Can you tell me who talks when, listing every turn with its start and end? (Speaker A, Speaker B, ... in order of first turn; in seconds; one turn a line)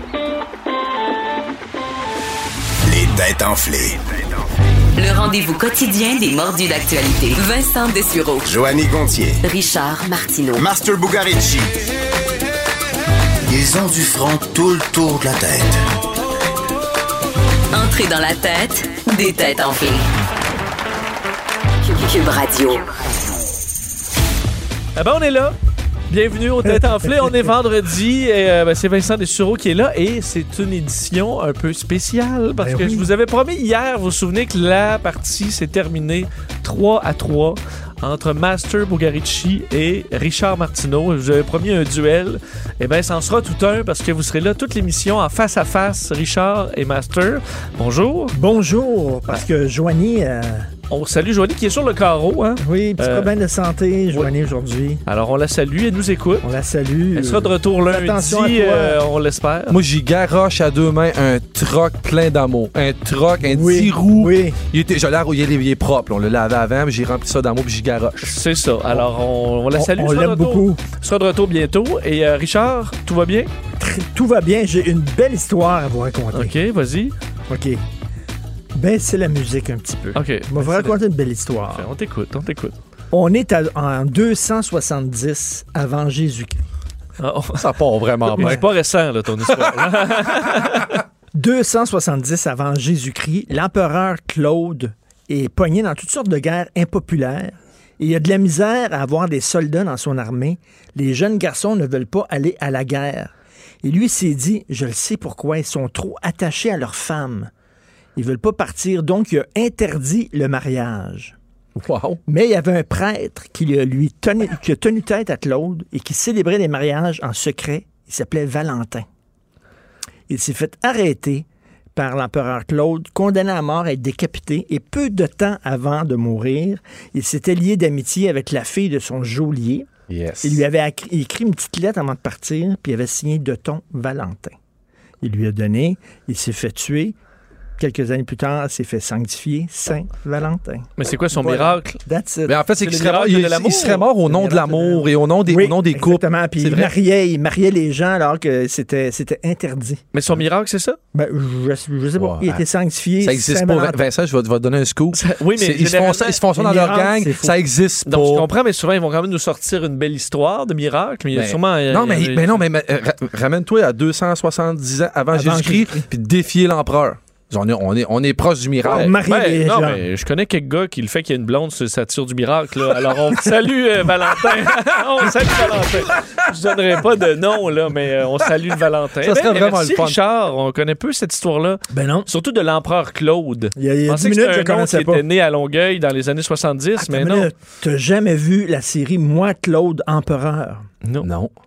Speaker A: 2.8-4.0
Speaker B: 5.0-8.6
Speaker A: 8.4-9.4
Speaker B: 9.4-10.7
Speaker A: 10.5-11.7
Speaker A: 13.5-15.8
Speaker B: 17.7-20.1
Speaker B: 21.8-22.9
Speaker C: 24.9-25.6
Speaker C: 26.1-48.4
Speaker D: 26.6-27.5
Speaker D: 32.6-33.1
Speaker D: 48.3-50.7
Speaker C: 50.9-53.3
Speaker D: 52.6-55.0
Speaker C: 55.0-56.5
Speaker D: 56.4-59.0
Speaker C: 57.1-59.8
Speaker E: 59.7-68.4
Speaker D: 63.4-64.6
Speaker C: 68.2-73.5
Speaker D: 69.7-70.8
Speaker D: 73.8-76.5
Speaker C: 76.3-77.1
Speaker D: 77.5-77.8
Speaker D: 78.7-81.9
Speaker C: 80.1-81.0
Speaker C: 81.7-82.8
Speaker D: 83.1-86.6
Speaker C: 87.2-87.7
Speaker E: 87.6-88.7
Speaker C: 88.2-91.0
Speaker D: 88.4-88.6
Speaker E: 89.5-90.8
Speaker D: 91.3-103.3
Speaker D: 103.8-107.5
Speaker D: 108.2-111.3
Speaker E: 111.8-112.2
Speaker D: 112.3-119.0
Speaker D: 120.3-129.9
Speaker E: 130.1-130.6
Speaker D: 130.4-134.6
Speaker D: 135.2-137.2
Speaker D: 137.8-142.6
Speaker C: 141.0-142.0
Speaker E: 142.4-146.9
Speaker C: 142.8-144.1
Speaker D: 144.2-150.0
Speaker C: 150.1-151.0
Speaker D: 151.1-154.0
Speaker E: 152.2-152.6
Speaker E: 153.2-158.5
Speaker C: 155.1-156.4
Speaker D: 156.5-157.6
Speaker C: 158.1-162.7
Speaker E: 161.3-169.2
Speaker D: 165.3-166.1
Speaker D: 168.8-170.0
Speaker C: 168.9-187.5
Speaker E: 175.4-176.3
Speaker E: 179.2-180.2
Speaker D: 181.9-182.3
Speaker D: 183.8-185.2
Speaker D: 187.0-190.8
Speaker C: 191.0-191.3
Speaker E: 191.2-191.5